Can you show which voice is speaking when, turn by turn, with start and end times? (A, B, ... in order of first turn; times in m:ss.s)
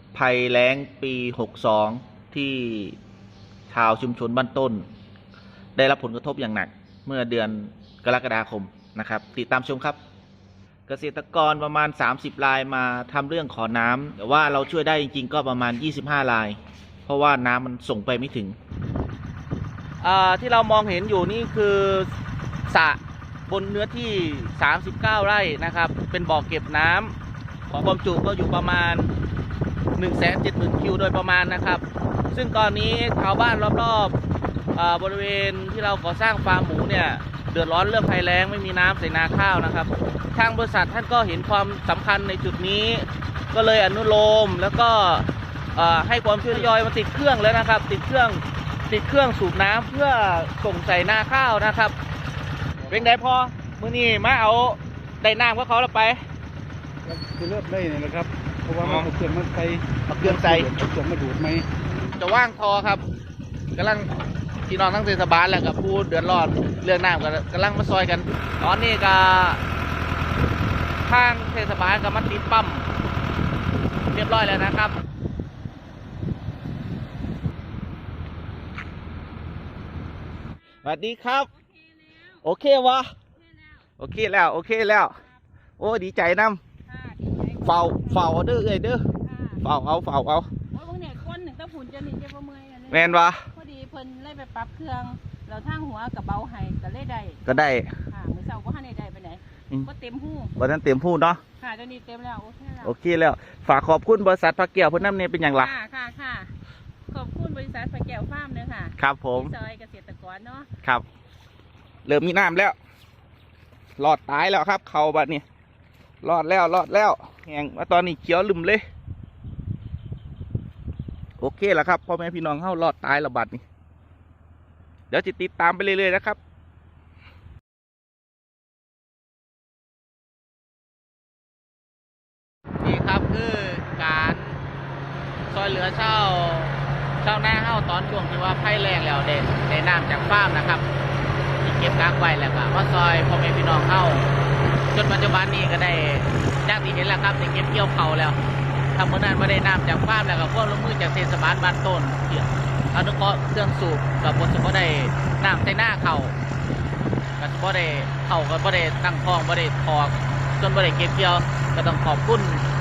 0:00.1-0:03.0 A
0:03.7-0:04.8 A
0:05.8-0:10.0 A
0:10.9-0:18.6 A
0:20.0-0:22.1 A
0:22.7-0:27.1 A
0:27.7-0:29.1 A
0:30.0-0:34.1 A
0:34.8-0:51.9 A
0:52.9-0:56.2 A
0:57.0-1:01.6 B
0:58.8-0:59.1 A
1:00.1-1:00.7 A
1:02.2-1:03.0 A
1:03.8-1:04.1 A
1:04.7-1:09.6 A
1:11.0-1:12.8 A
1:14.1-1:14.9 A
1:20.8-1:21.5 A
1:21.5-1:22.4 C
1:22.4-1:23.1 A
1:23.4-1:23.8 C
1:24.0-1:25.2 A
1:25.8-1:26.6 A
1:26.8-1:28.4 C
1:27.6-1:29.1 A
1:29.2-1:29.6 C
1:29.6-1:30.5 A
1:30.7-1:40.5 C
1:32.9-1:33.5 A
1:37.4-1:37.9 A
1:40.6-1:41.4 A
1:41.6-1:42.9 C
1:42.8-1:45.7 A
1:45.5-1:46.5 C
1:47.1-1:50.7 C
1:49.0-1:49.5 A
1:52.0-1:52.8 A
1:54.0-1:55.4 A
1:56.2-1:58.8 A
2:01.4-2:03.6 A
2:05.1-2:06.4 A
2:12.8-2:14.6 A
2:15.5-2:20.8 A
2:21.6-2:24.3 A
2:24.9-2:28.4 A
2:29.0-2:36.3 A
2:37.4-2:42.6 A